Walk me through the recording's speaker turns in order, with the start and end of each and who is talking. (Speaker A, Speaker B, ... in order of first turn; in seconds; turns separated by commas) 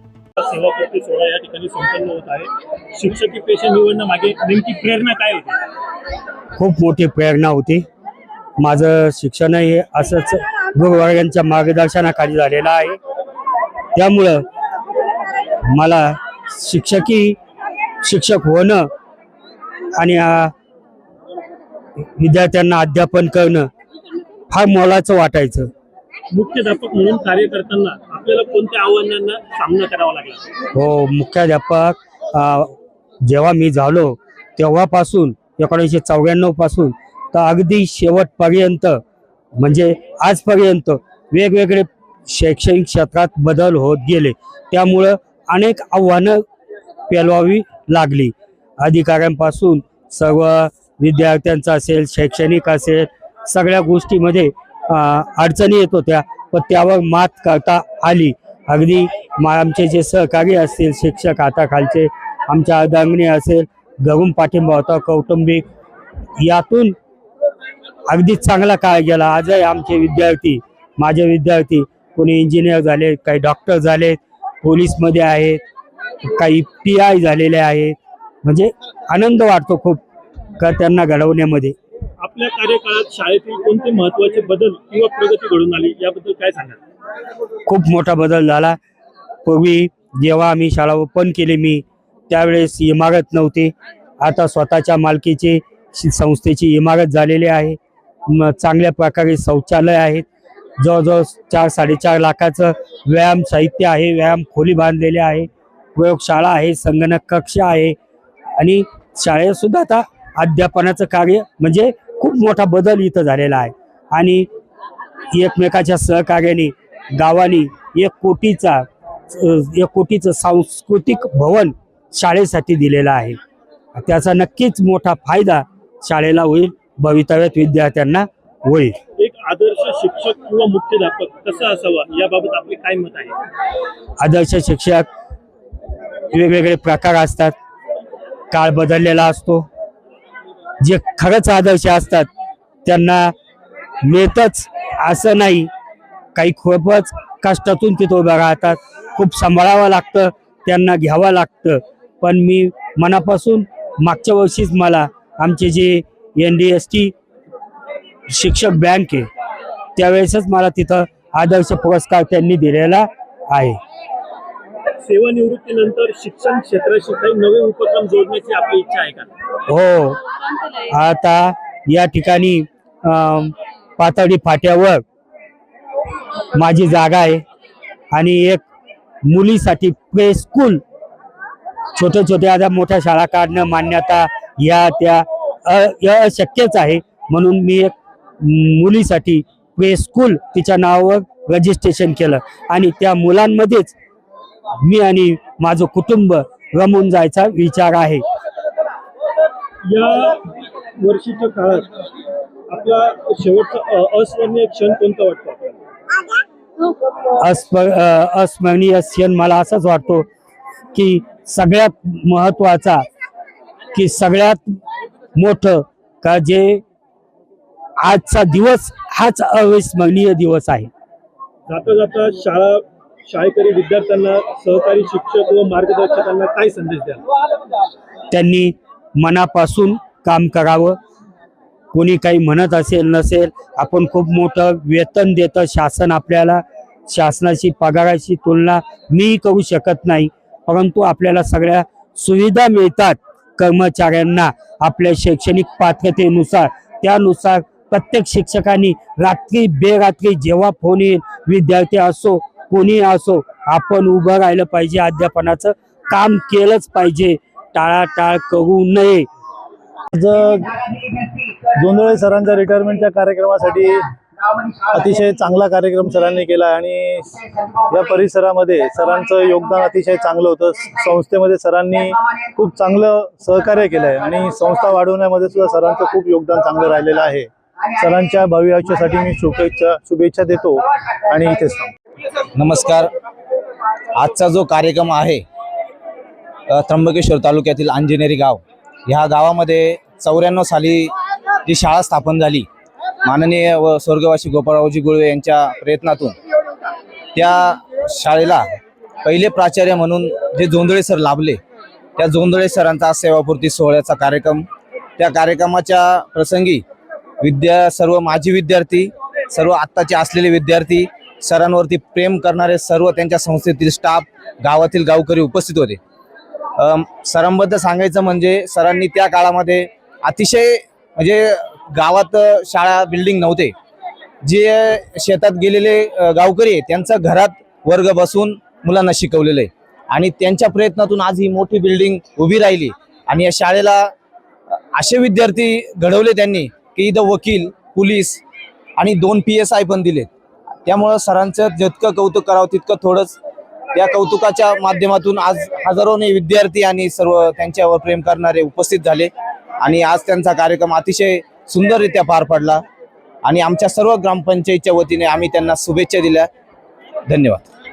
Speaker A: 0.4-5.6, Speaker B: 6.6-7.8, Speaker B: 8.6-13.0, Speaker B: 13.9-14.4, Speaker B: 15.7-17.4, Speaker B: 18.0-18.8, Speaker B: 20.0-20.5, Speaker B: 22.2-23.7, Speaker B: 24.5-25.7, Speaker A: 26.3-30.5, Speaker B: 30.7-32.7, Speaker B: 33.2-39.0, Speaker B: 39.6-46.4, Speaker B: 47.1-65.6, Speaker B: 66.4-66.9, Speaker B: 68.1-75.6, Speaker B: 76.3-80.0, Speaker B: 80.6-81.7, Speaker A: 82.2-86.8, Speaker B: 87.7-88.8, Speaker B: 89.4-97.8, Speaker B: 98.3-100.2, Speaker B: 100.8-107.9, Speaker B: 108.6-114.5, Speaker B: 115.3-123.4, Speaker B: 123.9-128.9, Speaker A: 129.2-133.3, Speaker B: 134.2-135.0, Speaker B: 136.3-137.5, Speaker B: 138.5-139.7, Speaker B: 140.8-142.3, Speaker B: 142.8-143.3, Speaker B: 144.0-145.7, Speaker B: 146.3-157.1, Speaker B: 158.3-159.3, Speaker B: 159.9-163.8, Speaker A: 165.0-169.3, Speaker B: 169.7-170.2, Speaker B: 170.9-175.0, Speaker B: 176.5-177.4, Speaker B: 178.1-178.6, Speaker B: 179.2-180.8, Speaker B: 181.9-193.9, Speaker B: 194.8-198.2, Speaker A: 199.9-200.4, Speaker A: 201.0-201.9, Speaker A: 202.7-205.8, Speaker B: 207.4-210.3, Speaker B: 210.9-213.0, Speaker B: 213.9-214.6, Speaker B: 215.4-216.8, Speaker B: 218.0-220.9, Speaker A: 221.7-227.2, Speaker B: 228.3-231.0, Speaker B: 231.9-259.2, Speaker C: 260.1-260.8, Speaker C: 261.8-264.1, Speaker C: 264.9-281.9, Speaker D: 282.6-283.1, Speaker D: 284.2-285.4, Speaker D: 286.7-291.1, Speaker D: 291.6-292.7, Speaker D: 293.2-296.3, Speaker D: 297.3-298.6, Speaker D: 299.2-301.6, Speaker D: 302.2-304.7, Speaker D: 305.2-306.8, Speaker D: 307.4-316.0, Speaker D: 316.8-323.7, Speaker D: 324.4-334.1, Speaker D: 334.9-338.4, Speaker D: 339.0-340.3, Speaker D: 340.9-343.4, Speaker D: 343.9-352.8, Speaker D: 353.4-356.5, Speaker D: 357.3-357.6